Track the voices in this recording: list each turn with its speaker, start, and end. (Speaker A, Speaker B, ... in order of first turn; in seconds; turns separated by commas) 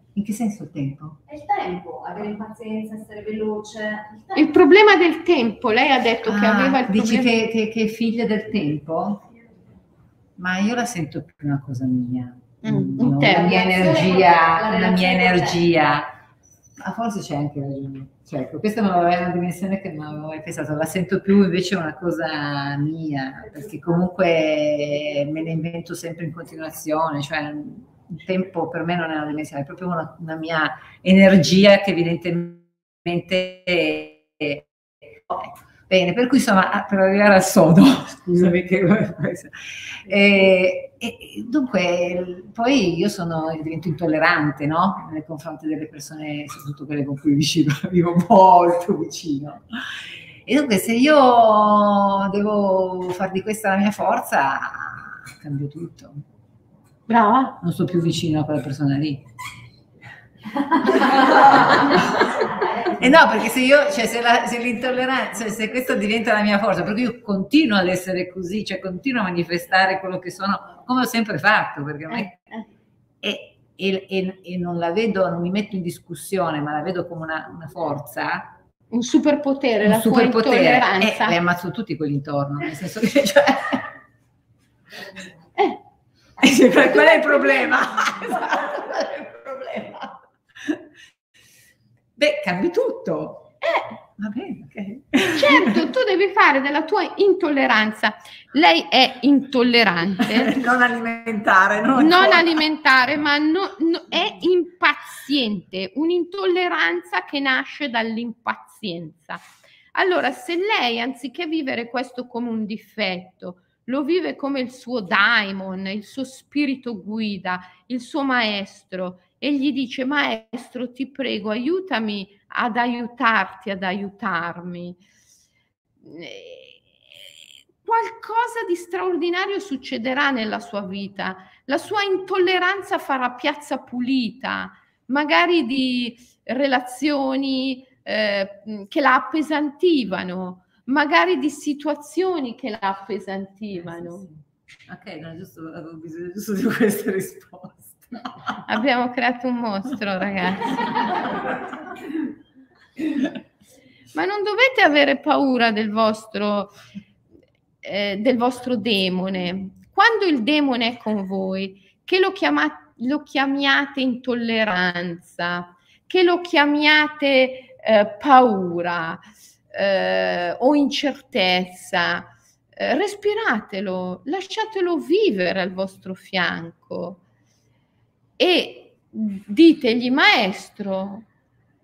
Speaker A: 0.1-1.2, Speaker B: 1.3-4.3, Speaker C: 4.3-7.4, Speaker A: 6.2-9.2, Speaker A: 10.4-16.1, Speaker C: 12.6-13.6, Speaker B: 13.4-15.6, Speaker A: 16.8-34.7, Speaker A: 35.3-49.6, Speaker A: 50.5-56.2, Speaker C: 57.1-57.6, Speaker A: 57.6-59.3, Speaker A: 60.8-62.2, Speaker A: 62.9-72.5, Speaker C: 72.1-72.6, Speaker A: 73.2-78.5, Speaker C: 78.9-81.4, Speaker A: 79.8-83.9, Speaker A: 86.4-90.2, Speaker C: 86.8-87.7, Speaker A: 92.2-93.5, Speaker C: 93.6-93.9, Speaker A: 94.2-95.7, Speaker C: 95.3-100.5, Speaker A: 100.2-102.6, Speaker C: 101.9-109.4, Speaker C: 109.9-125.0, Speaker C: 126.0-127.2, Speaker C: 127.8-144.3, Speaker A: 144.9-148.6, Speaker C: 148.7-151.0, Speaker C: 154.1-156.7, Speaker C: 157.8-177.2, Speaker C: 178.4-181.2